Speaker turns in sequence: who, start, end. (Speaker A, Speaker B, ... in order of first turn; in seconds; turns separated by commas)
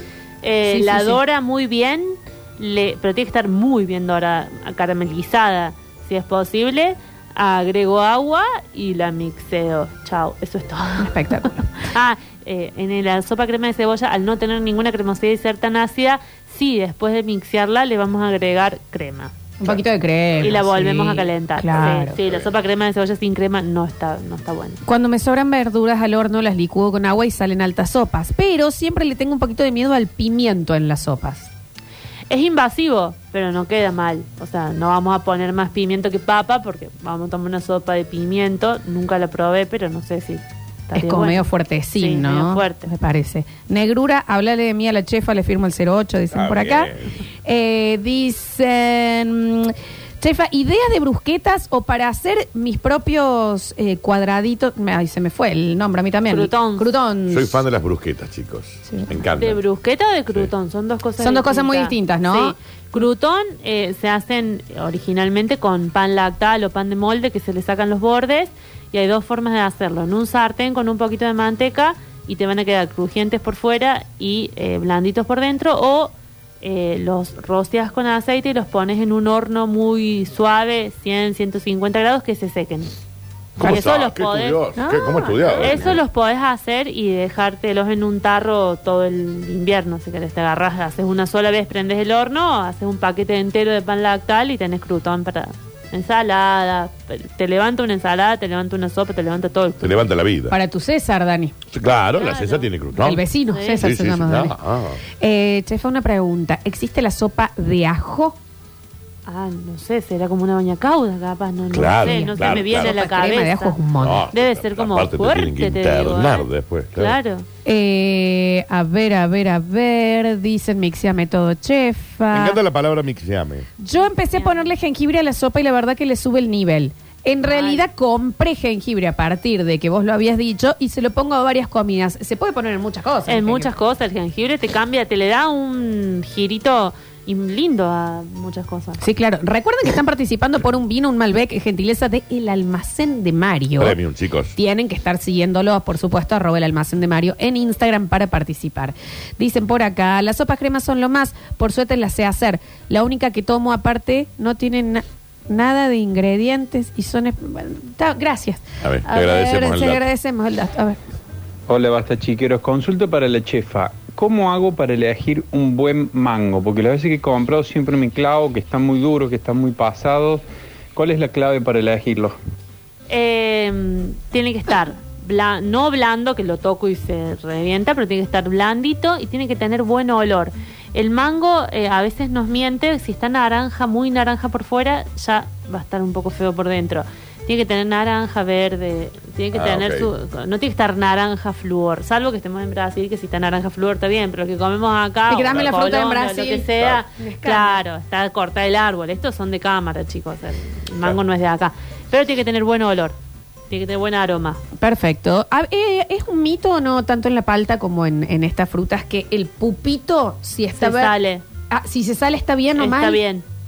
Speaker A: 0.4-19.3, Speaker B: 0.7-1.2, Speaker B: 11.0-11.7, Speaker B: 19.6-22.2, Speaker A: 20.4-24.8, Speaker B: 24.9-31.5, Speaker A: 32.3-41.4, Speaker B: 40.9-46.9, Speaker A: 42.0-42.9, Speaker C: 46.3-47.1, Speaker B: 47.4-57.6, Speaker A: 56.3-56.9, Speaker C: 57.3-59.6, Speaker A: 59.4-82.9, Speaker B: 61.2-62.6, Speaker A: 83.6-84.6, Speaker C: 83.6-86.0, Speaker B: 84.8-85.9, Speaker A: 85.6-100.1, Speaker C: 99.8-100.6, Speaker B: 100.5-101.5, Speaker C: 101.7-103.2, Speaker A: 102.1-102.7, Speaker B: 103.0-104.5, Speaker A: 103.5-103.9, Speaker C: 103.8-105.0, Speaker B: 105.2-108.4, Speaker A: 109.3-117.5, Speaker C: 111.7-113.0, Speaker B: 112.0-114.3, Speaker C: 114.0-117.2, Speaker B: 117.7-122.6, Speaker C: 122.3-123.7, Speaker B: 123.8-133.7, Speaker A: 124.3-124.7, Speaker A: 127.4-127.9, Speaker A: 133.3-139.0, Speaker B: 139.0-144.0, Speaker C: 143.8-144.6, Speaker B: 144.6-161.0, Speaker C: 158.8-160.0, Speaker D: 161.7-170.4, Speaker D: 170.9-172.4, Speaker A: 173.1-203.2, Speaker C: 189.5-190.1, Speaker B: 195.3-197.8, Speaker C: 195.5-195.8, Speaker A: 203.7-204.6, Speaker B: 204.8-211.1, Speaker A: 210.8-211.4, Speaker B: 211.7-213.2, Speaker A: 212.8-213.4